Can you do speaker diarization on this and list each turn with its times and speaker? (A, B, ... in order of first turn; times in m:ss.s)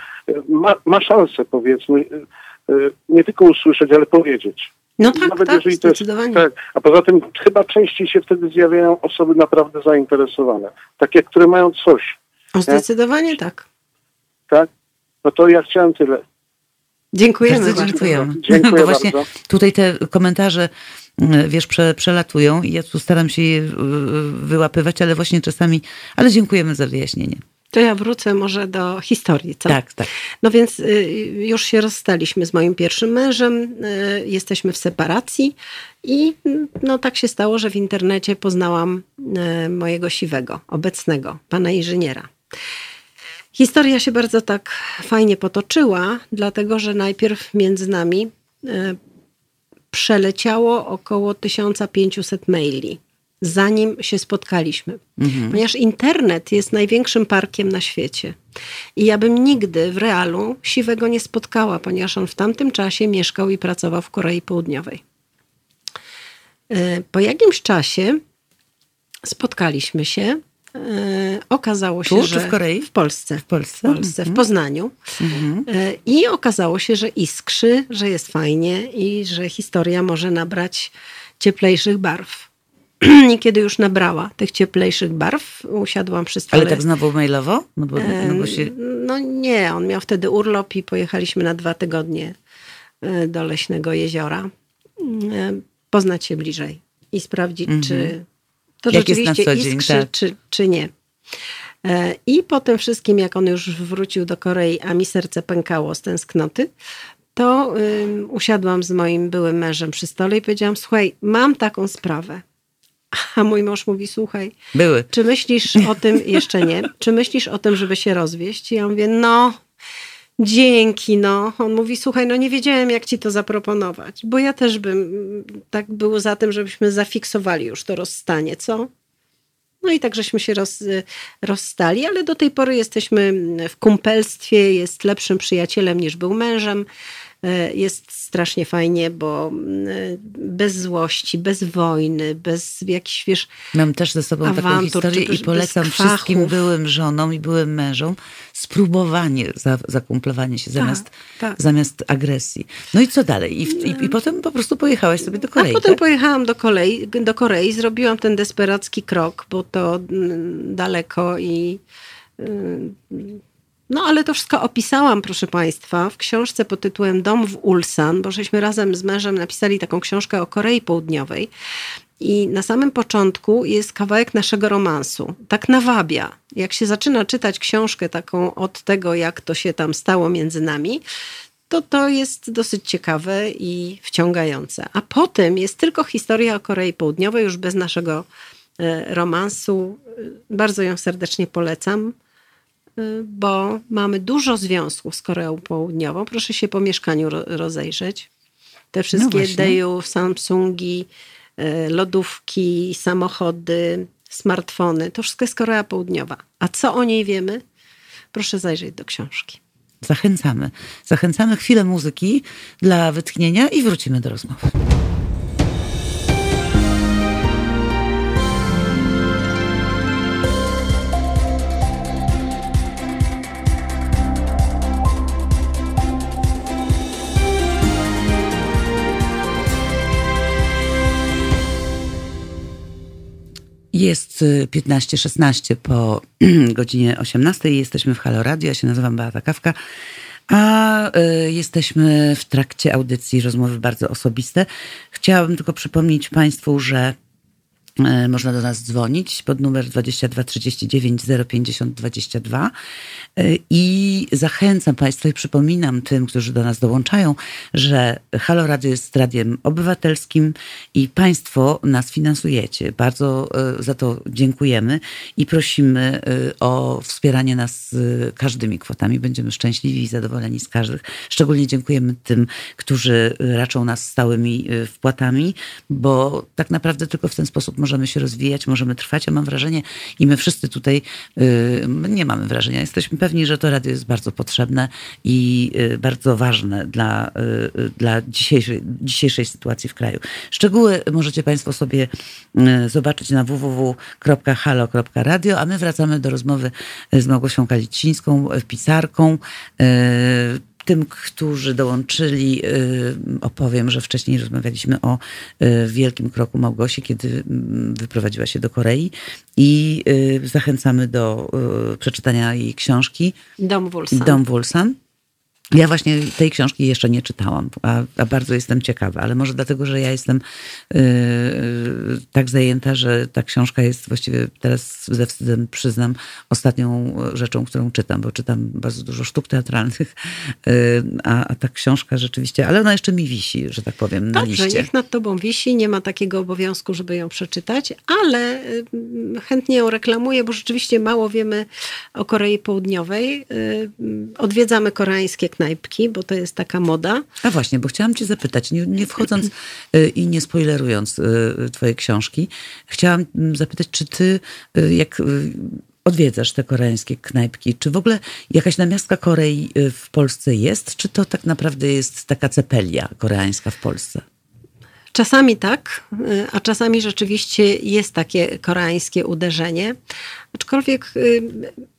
0:00.3-0:12.2 A
0:05.0-0:06.4 B
0:12.6-0:13.6 B
0:15.2-0:16.2 A
0:17.1-0:18.0 B
0:17.5-0:27.4 C
0:17.6-0:19.2 A
0:27.7-0:29.8 B
0:29.7-0:30.1 C
0:30.4-0:42.3 B
0:43.5-0:49.0 B
0:49.9-0:58.4 B
0:55.2-0:55.6 C
0:59.0-1:05.0 B
1:06.7-1:08.2 B
1:09.2-1:15.0 B
1:12.1-1:12.9 C
1:13.4-1:14.4 C
1:15.2-1:15.7 C
1:15.7-1:22.5 B
1:23.0-1:26.8 B
1:26.5-1:28.7 C
1:28.0-1:32.4 B
1:33.0-1:38.2 B
1:37.7-1:38.1 C
1:38.8-1:40.9 B
1:38.9-1:40.1 C
1:41.8-1:46.7 B
1:47.4-1:52.4 B
1:53.1-1:54.5 B
1:54.7-1:55.1 C
1:55.1-1:59.6 B
2:00.4-2:08.9 B
2:09.8-2:16.9 B
2:17.4-2:23.5 B
2:23.7-2:36.0 C
2:24.4-2:26.6 B
2:30.8-2:31.6 B
2:35.5-2:41.8 B
2:42.4-2:51.5 B
2:52.2-3:01.0 B
3:01.7-3:08.2 B
3:08.8-3:12.2 B
3:13.0-3:18.3 B
3:18.9-3:27.6 B
3:19.1-3:19.8 C
3:28.3-3:29.6 B
3:30.0-3:34.8 C
3:53.9-3:59.8 C
4:00.5-4:07.2 C
4:08.0-4:12.7 C
4:13.4-5:13.4 C
5:13.6-5:14.4 B
5:14.1-5:15.0 C
5:15.7-5:34.9 C
5:34.3-5:47.3 B
5:47.4-6:04.2 C
6:05.1-6:10.0 B
6:10.5-6:11.8 B